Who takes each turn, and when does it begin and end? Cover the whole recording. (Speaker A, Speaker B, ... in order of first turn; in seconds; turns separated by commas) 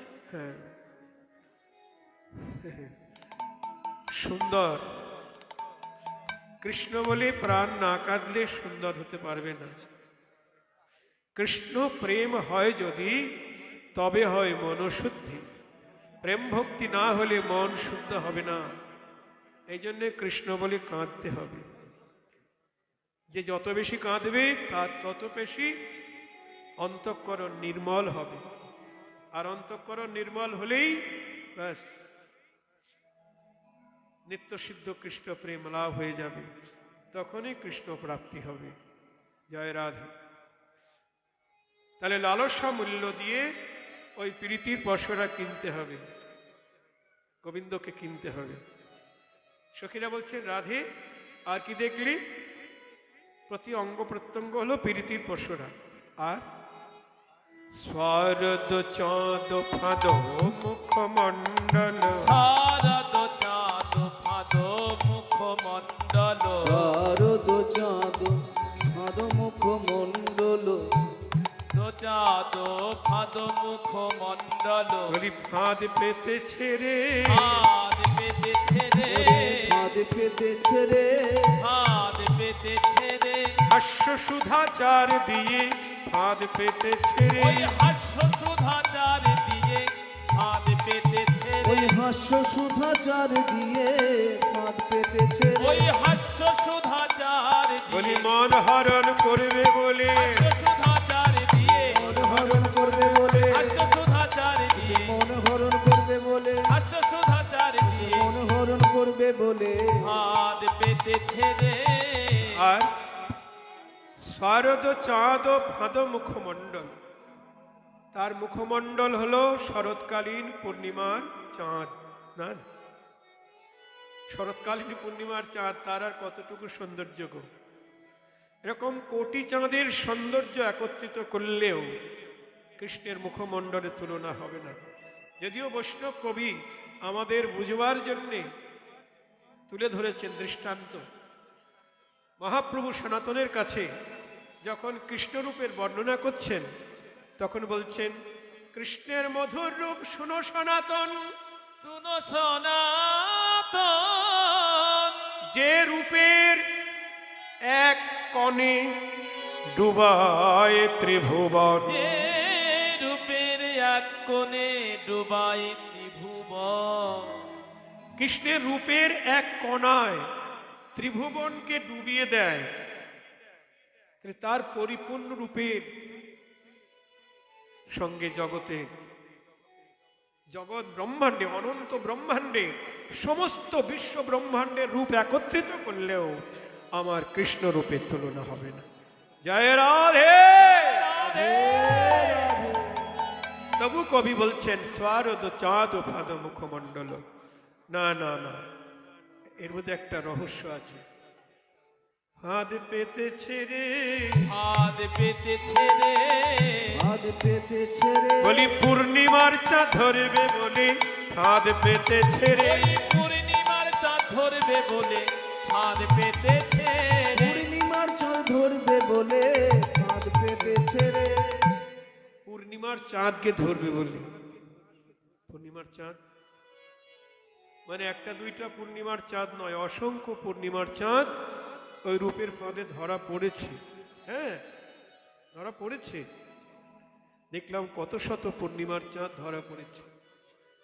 Speaker A: 0.3-0.7, Speaker A: 2.5-2.9, Speaker A: 4.2-4.9, Speaker A: 6.6-9.8, Speaker A: 11.3-13.3, Speaker A: 13.9-15.4, Speaker A: 16.2-18.7, Speaker A: 19.7-21.7, Speaker A: 23.3-25.8, Speaker A: 26.8-28.4, Speaker A: 29.3-32.0, Speaker A: 34.3-36.5, Speaker A: 37.1-38.8, Speaker A: 39.5-40.1, Speaker A: 42.0-43.5, Speaker A: 44.1-46.0, Speaker A: 47.4-48.6, Speaker A: 49.7-50.9, Speaker A: 51.5-52.2, Speaker A: 53.5-56.4, Speaker A: 57.7-62.4, Speaker B: 62.1-66.9, Speaker C: 66.5-70.8, Speaker B: 71.7-75.2, Speaker A: 75.1-77.6, Speaker B: 77.2-79.8, Speaker C: 79.0-81.6, Speaker B: 81.6-83.6, Speaker A: 83.7-87.8, Speaker B: 87.3-92.0, Speaker C: 91.6-95.9, Speaker B: 95.5-98.3, Speaker A: 97.9-100.5, Speaker B: 100.1-105.2, Speaker C: 101.9-103.9, Speaker A: 102.3-102.8, Speaker C: 104.7-106.7, Speaker B: 106.7-108.3, Speaker C: 107.8-110.2, Speaker B: 110.0-112.6, Speaker A: 112.5-112.9, Speaker A: 114.2-116.9, Speaker A: 118.1-122.6, Speaker A: 124.3-127.5, Speaker A: 128.7-131.9, Speaker A: 132.8-134.8, Speaker A: 135.4-138.5, Speaker A: 139.7-141.0, Speaker A: 142.4-143.9, Speaker A: 144.6-146.7, Speaker A: 147.4-148.1, Speaker A: 148.7-151.2, Speaker B: 151.8-155.2, Speaker A: 155.5-156.6, Speaker A: 157.7-158.9, Speaker A: 159.7-161.9, Speaker B: 161.8-167.4, Speaker A: 168.2-170.3, Speaker A: 170.9-172.7, Speaker A: 174.2-175.8, Speaker A: 177.9-178.9, Speaker A: 180.5-188.8, Speaker A: 189.4-191.1, Speaker B: 190.5-192.6, Speaker C: 191.2-193.1, Speaker A: 193.8-197.2, Speaker A: 197.9-198.6, Speaker A: 199.6-201.0, Speaker A: 202.4-204.4, Speaker B: 204.4-207.1, Speaker C: 206.9-209.0, Speaker A: 208.4-212.9, Speaker B: 212.5-217.6, Speaker C: 217.3-221.7, Speaker A: 222.4-224.2, Speaker A: 225.5-226.2, Speaker A: 227.9-231.3, Speaker A: 232.0-234.6, Speaker A: 235.5-236.2, Speaker A: 237.5-240.1